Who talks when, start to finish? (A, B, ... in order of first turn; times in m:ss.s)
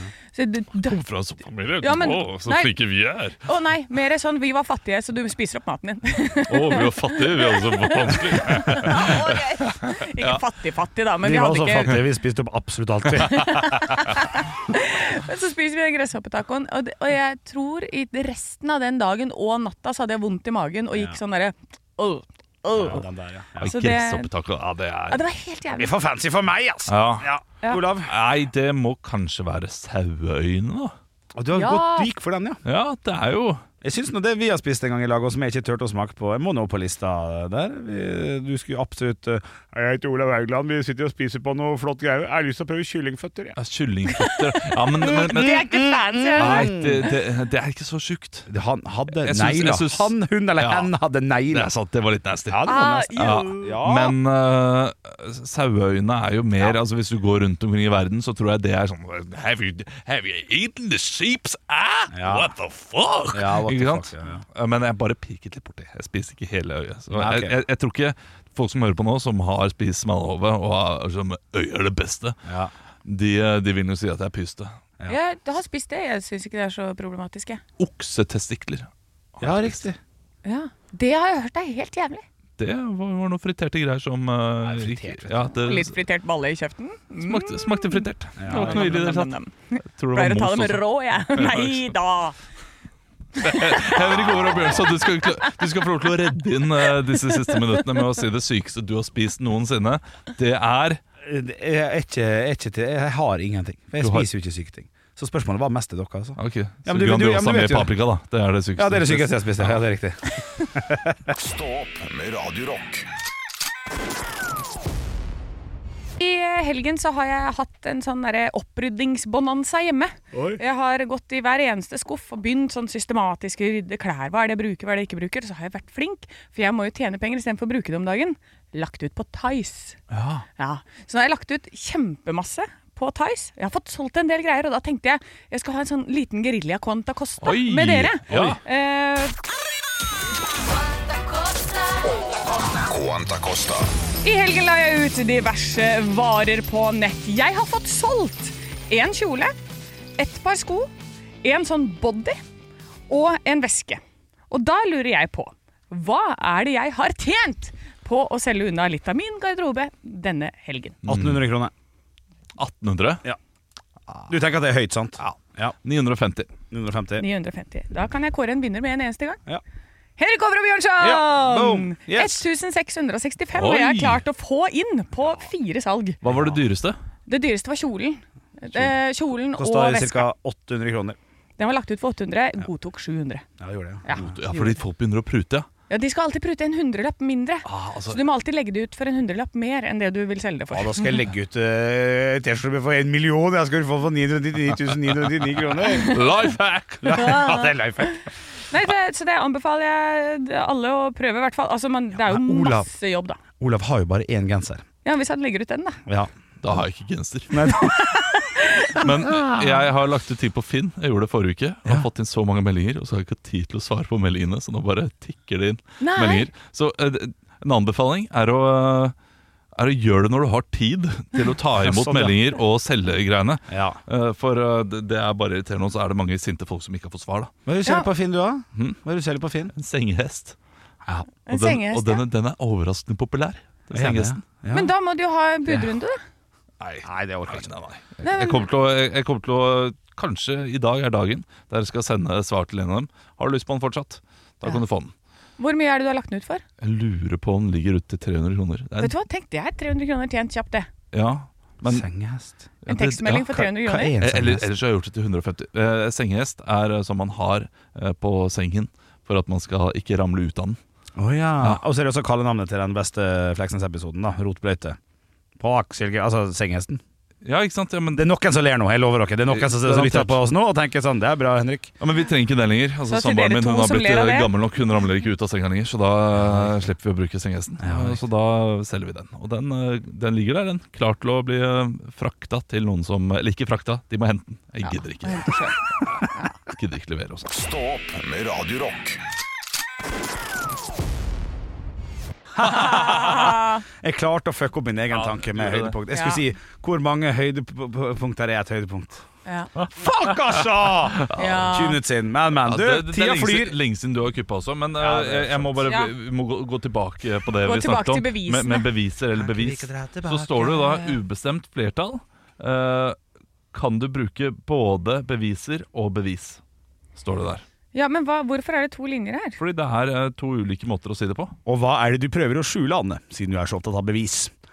0:00.3-0:01.0 A
0:00.8-0:03.4 B
0:01.8-0:02.7 A
0:03.4-0:12.0 A
0:06.5-0:10.4 B
0:11.2-0:13.8 C
0:13.2-0:23.0 A
0:22.7-0:23.8 C
0:23.6-0:24.3 A
0:23.6-0:25.2 B
0:25.1-0:25.9 A
0:25.7-0:28.1 C
0:26.9-0:27.3 B
0:28.0-0:30.9 B
0:31.3-0:32.6 C
0:31.5-0:32.1 A
0:32.6-0:33.6 B
0:33.8-0:43.6 C
0:43.6-0:45.6 B
0:44.2-0:46.8 A
0:45.0-0:47.1 C
0:46.4-0:48.5 B
0:48.5-0:51.7 C
0:49.2-0:50.9 B
0:51.5-1:12.4 B
0:52.5-0:54.2 C
0:52.6-0:53.7 A
1:02.1-1:02.5 C
1:03.3-1:04.4 C
1:07.1-1:07.6 C
1:12.4-1:12.7 C
1:13.0-1:14.8 B
1:15.1-1:17.6 A
1:17.8-1:19.8 B
1:19.4-1:20.0 C
1:20.4-1:22.2 A
1:22.6-1:26.0 B
1:24.6-1:25.5 C
1:25.5-1:32.4 A
1:27.2-1:31.9 B
1:28.4-1:29.1 C
1:33.4-1:41.0 B
1:33.4-1:34.3 A
1:33.9-1:35.0 C
1:37.1-1:37.8 A
1:41.2-1:47.9 C
1:44.0-1:44.3 B
1:46.4-1:49.8 B
1:48.8-1:51.4 C
1:51.3-1:53.1 D
1:56.2-2:10.0 A
2:00.3-2:00.6 C
2:10.1-2:10.4 B
2:10.6-2:19.3 A
2:17.4-2:18.6 B
2:22.7-2:23.9 D
2:24.2-2:29.6 A
2:30.2-2:30.9 A
2:31.4-2:32.4 A
2:33.1-2:41.0 A
2:41.0-2:41.4 B
2:41.0-2:41.7 C
2:42.6-2:43.2 B
2:44.3-2:45.8 C
2:45.2-2:46.5 B
2:46.7-2:47.2 C
2:47.2-2:49.4 A
2:50.2-2:56.2 A
2:51.0-2:52.4 C
2:53.5-2:54.2 B
2:56.2-2:57.0 B
2:56.2-2:56.6 C
2:57.3-3:00.3 A
2:59.6-3:01.2 C
3:01.6-3:03.4 A
3:03.6-3:04.3 C
3:04.0-3:04.7 A
3:04.1-3:05.7 B
3:05.9-3:11.1 A
3:07.6-3:08.2 B
3:10.7-3:16.2 C
3:16.0-3:17.2 B
3:17.0-3:18.2 C
3:17.1-3:18.2 A
3:18.7-3:23.4 A
3:22.2-3:22.9 C
3:23.6-3:24.8 C
3:25.0-3:26.0 A
3:26.6-3:27.7 B
3:27.5-3:28.0 C
3:27.6-3:29.1 A
3:29.0-3:39.1 B
3:29.3-3:29.6 C
3:36.0-3:36.5 A
3:39.8-3:47.5 B
3:41.8-3:42.4 C
3:43.7-3:44.0 C
3:47.6-3:49.7 C
3:49.7-3:50.6 B
3:51.3-3:54.4 B
3:51.5-3:52.2 A
3:53.9-3:54.9 C
3:54.7-3:56.2 A
3:56.8-4:05.1 B
3:57.0-3:57.7 C
3:58.2-3:58.7 A
4:05.6-4:06.6 A
4:06.8-4:09.1 B
4:09.0-4:10.9 A
4:11.1-4:12.1 B
4:11.8-4:12.7 C
4:12.8-4:20.8 B
4:12.9-4:14.1 A
4:13.6-4:14.7 C
4:21.2-4:25.0 C
4:25.6-4:27.0 C
4:27.4-4:28.2 B
4:28.1-4:31.9 C
4:29.5-4:30.4 B
4:32.0-4:45.6 B
4:33.1-4:34.5 A
4:36.3-4:36.7 C
4:37.8-4:38.2 C
4:45.2-4:45.8 A
4:46.6-4:47.5 B
4:47.5-4:49.2 D
4:52.5-4:59.2 C
4:52.6-4:53.8 A
4:55.1-4:56.0 B
4:56.1-4:56.4 A
4:59.4-4:59.7 A
4:59.8-5:03.8 C
5:01.2-5:01.7 B
5:01.3-5:02.0 A
5:02.6-5:13.2 B
5:05.0-5:05.9 C
5:05.8-5:06.1 A
5:07.6-5:08.9 A
5:09.4-5:11.2 C
5:13.7-5:16.6 B
5:17.2-5:17.6 B
5:17.9-5:19.6 A
5:19.6-5:21.5 B
5:21.6-5:24.5 C